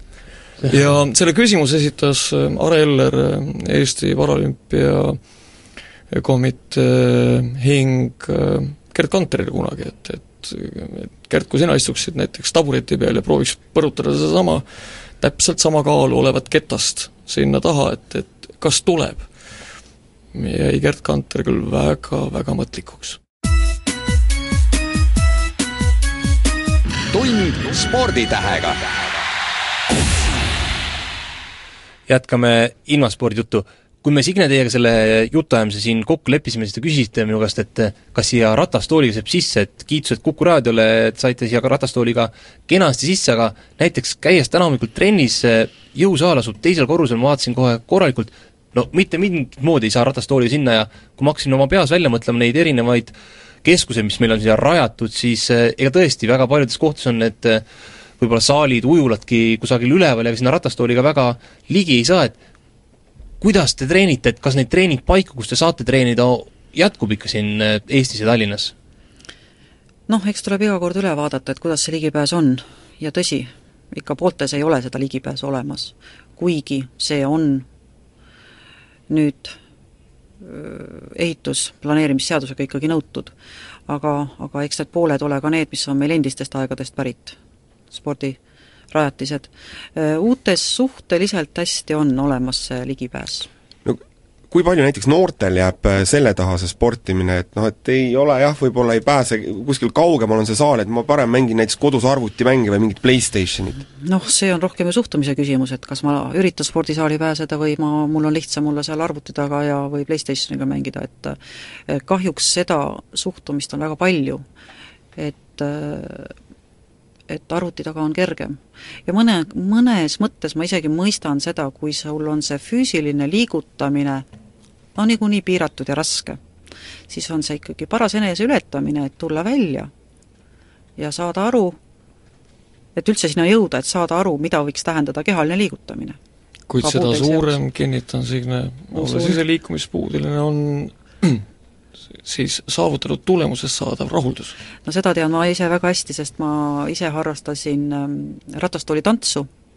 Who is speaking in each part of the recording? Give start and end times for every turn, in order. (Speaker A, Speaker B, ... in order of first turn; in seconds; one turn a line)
Speaker A: 0.7-5.2
Speaker A: 6.1-14.6
Speaker A: 15.2-19.3
Speaker A: 20.3-23.2
Speaker B: 27.1-29.2
Speaker C: 32.1-53.1
Speaker C: 53.6-57.6
Speaker C: 58.2-62.4
Speaker C: 63.4-68.7
Speaker D: 70.1-77.7
Speaker D: 79.1-79.5
Speaker D: 80.4-83.3
Speaker D: 83.9-87.4
Speaker D: 87.9-88.4
Speaker D: 88.9-93.5
Speaker E: 93.8-103.8
Speaker D: 104.0-111.4
Speaker D: 111.9-114.4
Speaker D: 115.2-116.3
Speaker D: 117.3-124.3
Speaker D: 125.0-126.4
Speaker D: 127.1-129.9
Speaker D: 131.0-131.8
Speaker D: 132.9-136.2
Speaker A: 136.7-141.4
Speaker D: 136.8-137.6
Speaker D: 138.9-139.4
Speaker A: 142.2-144.6
Speaker D: 144.8-149.5